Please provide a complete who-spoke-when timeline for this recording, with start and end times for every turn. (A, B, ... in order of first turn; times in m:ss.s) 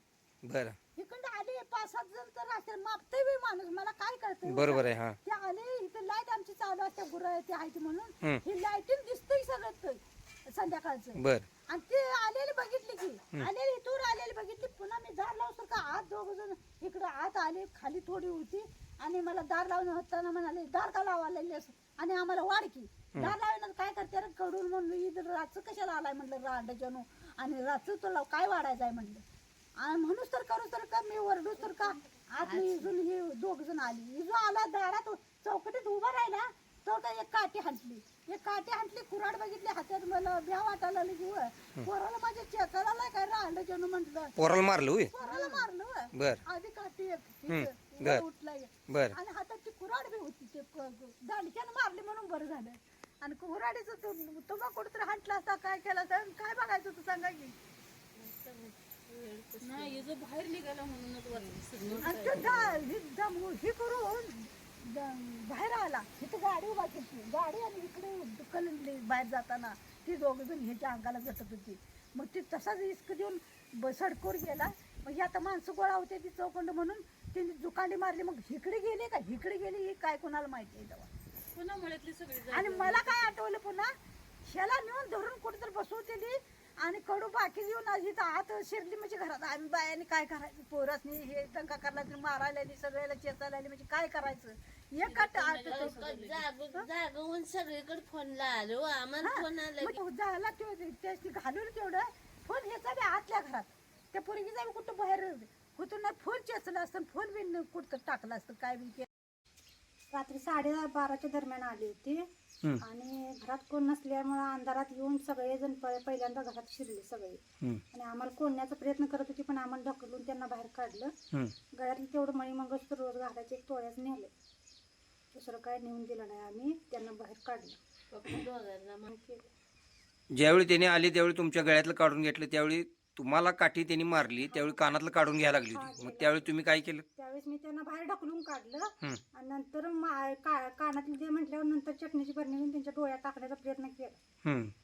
0:00.4-0:00.8 A
0:01.0-0:29.2 B
0:04.4-0:05.2 A
0:11.2-0:11.5 A
0:29.8-0:44.3 B
0:32.4-0:32.9 C
0:44.4-0:45.1 A
0:45.1-0:57.5 B
0:45.2-0:45.6 C
0:46.1-0:46.4 A
0:47.5-0:48.2 A
0:48.9-0:49.2 A
0:58.2-1:00.0 C
0:59.6-1:02.2 D
1:01.4-1:02.8 C
1:02.0-1:21.1 B
1:21.6-1:23.3 D
1:22.5-1:23.9 B
1:24.4-1:36.2 B
1:35.0-1:36.4 D
1:35.1-1:40.0 C
1:39.2-1:49.1 B
1:50.2-1:52.2 E
1:52.9-1:57.4 E
1:57.9-2:01.1 E
2:01.8-2:04.3 E
2:05.3-2:07.7 E
2:08.1-2:09.1 C
2:09.1-2:09.4 E
2:10.3-2:17.0 A
2:15.7-2:16.5 E
2:17.2-2:24.2 E
2:24.4-2:24.7 A